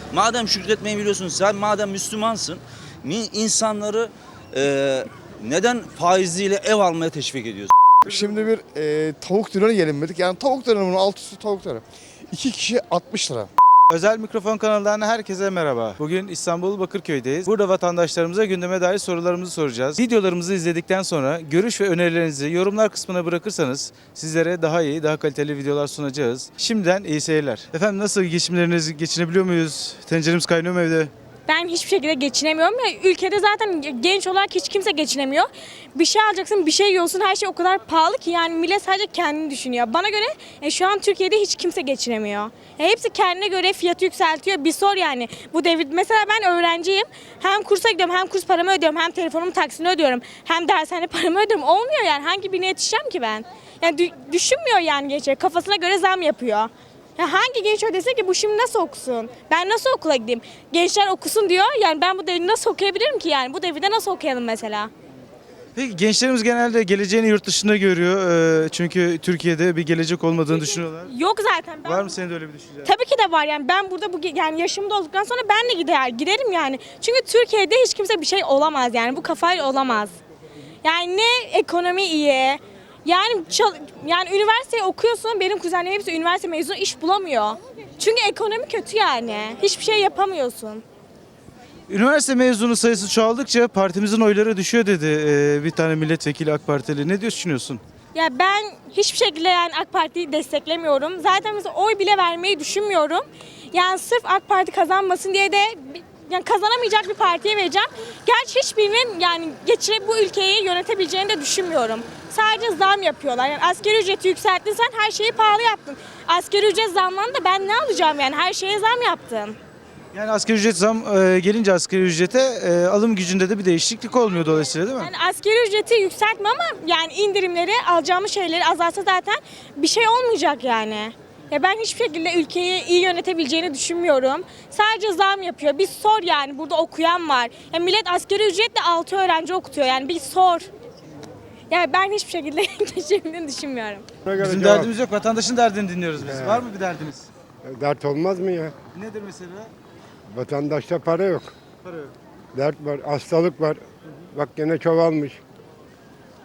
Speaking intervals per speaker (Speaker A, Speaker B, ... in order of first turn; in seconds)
Speaker A: 0.1-7.7
Speaker B: 8.1-13.5
Speaker C: 13.9-31.1, 65.8-71.1, 71.8-72.9, 91.9-97.8, 120.1-125.1, 144.4-147.3, 148.9-149.7, 151.8-152.1
Speaker D: 31.5-64.9, 70.5-72.2, 72.8-80.2, 80.8-90.8, 98.1-119.6, 125.0-140.7, 141.7-144.1
Speaker E: 144.3-144.9, 146.2-146.7, 147.7-148.7, 150.3-151.5, 152.5-153.8, 154.3-155.4